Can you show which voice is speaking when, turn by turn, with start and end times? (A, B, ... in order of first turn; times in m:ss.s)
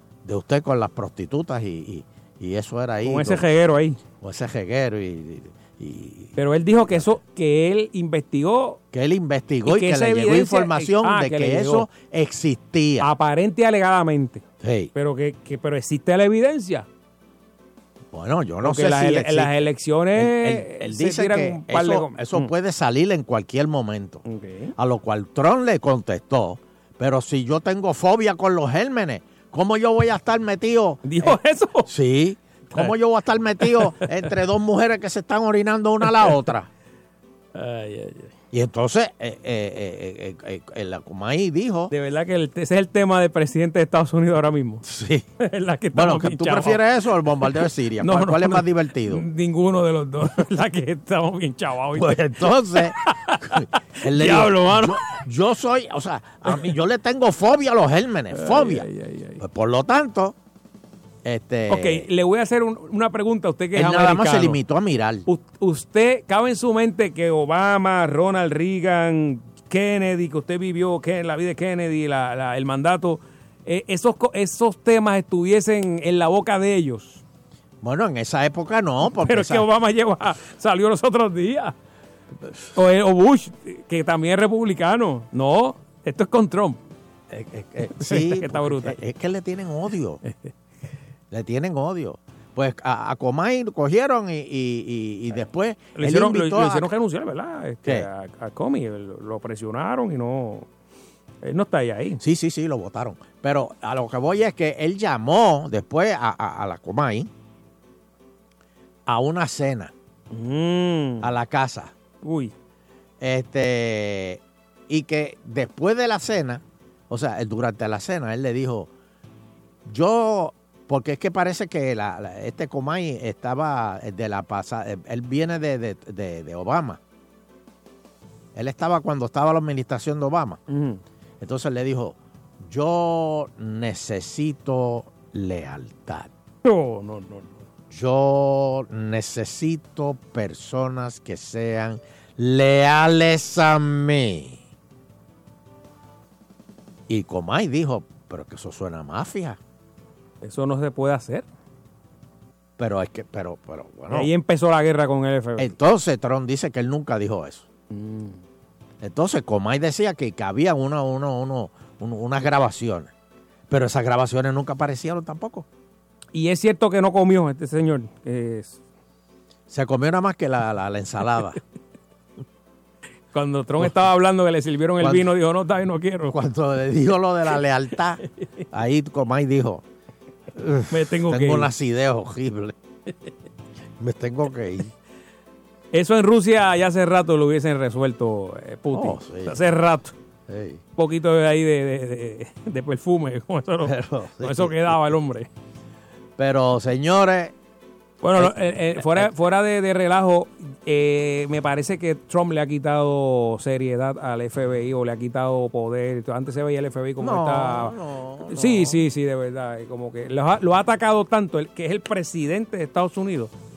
0:00.2-0:03.4 A
0:03.0-0:04.0 B
0:04.2-0:07.1 A
0:06.4-0:08.8 B
0:08.9-0:13.1 A
0:09.7-0:11.9 B
0:13.0-0:14.4 B
0:14.6-0:14.9 A
0:15.0-0:16.9 B
0:18.1-0:19.5 A
0:18.6-0:22.5 B
0:20.2-0:24.2 A
0:24.3-0:24.7 B
0:24.8-0:36.7 A
0:31.0-0:31.9 B
0:33.6-0:34.1 B
0:36.1-0:36.3 B
0:37.6-0:38.3 B
0:38.5-0:41.9 A
0:41.9-0:44.8 B
0:44.8-0:45.3 A
0:45.4-0:46.8 B
0:45.9-0:49.2 A
0:48.0-0:52.4 B
0:52.0-0:53.0 A
0:53.0-0:55.0 B
0:53.5-0:58.9 A
0:58.3-0:59.4 B
0:59.4-1:00.4 A
1:01.2-1:02.1 A
1:01.7-1:04.6 B
1:03.8-1:05.2 A
1:05.3-1:17.2 B
1:17.8-1:19.7 A
1:19.2-1:21.7 B
1:22.4-1:22.7 A
1:22.8-1:26.8 B
1:27.3-1:30.2 A
1:28.0-1:29.0 B
1:30.3-1:30.5 B
1:31.3-1:36.9 A
1:36.0-1:40.7 B
1:41.4-1:42.2 B
1:42.2-1:47.3 A
1:49.1-1:49.9 A
1:50.3-1:51.3 B
1:51.2-1:51.9 A
1:52.2-1:52.5 B
1:53.2-1:58.9 A
1:59.9-2:07.0 A
2:08.6-2:10.6 A
2:10.7-2:11.0 B
2:11.4-2:16.3 A
2:16.6-2:17.6 B
2:17.9-2:24.6 A
2:27.1-2:29.6 A
2:30.4-2:31.4 B
2:32.8-2:34.3 A
2:34.1-2:35.7 B
2:35.6-2:37.7 A
2:37.9-2:38.4 B
2:39.0-2:43.1 A
2:43.7-2:45.7 A
2:46.3-2:48.8 B
2:49.7-2:51.6 A
2:53.3-2:56.4 B
2:55.0-2:55.3 A
2:56.3-2:58.2 A
2:58.7-2:59.8 A
3:00.6-3:02.7 A
3:00.9-3:01.7 B
3:04.0-3:04.9 A
3:05.9-3:10.1 B
3:08.9-3:09.6 A
3:10.5-3:10.8 A
3:11.0-3:15.5 B
3:13.8-3:15.0 A
3:16.4-3:17.5 A
3:18.2-3:28.0 B
3:18.4-3:19.3 A
3:27.2-3:29.0 A
3:28.5-3:33.5 B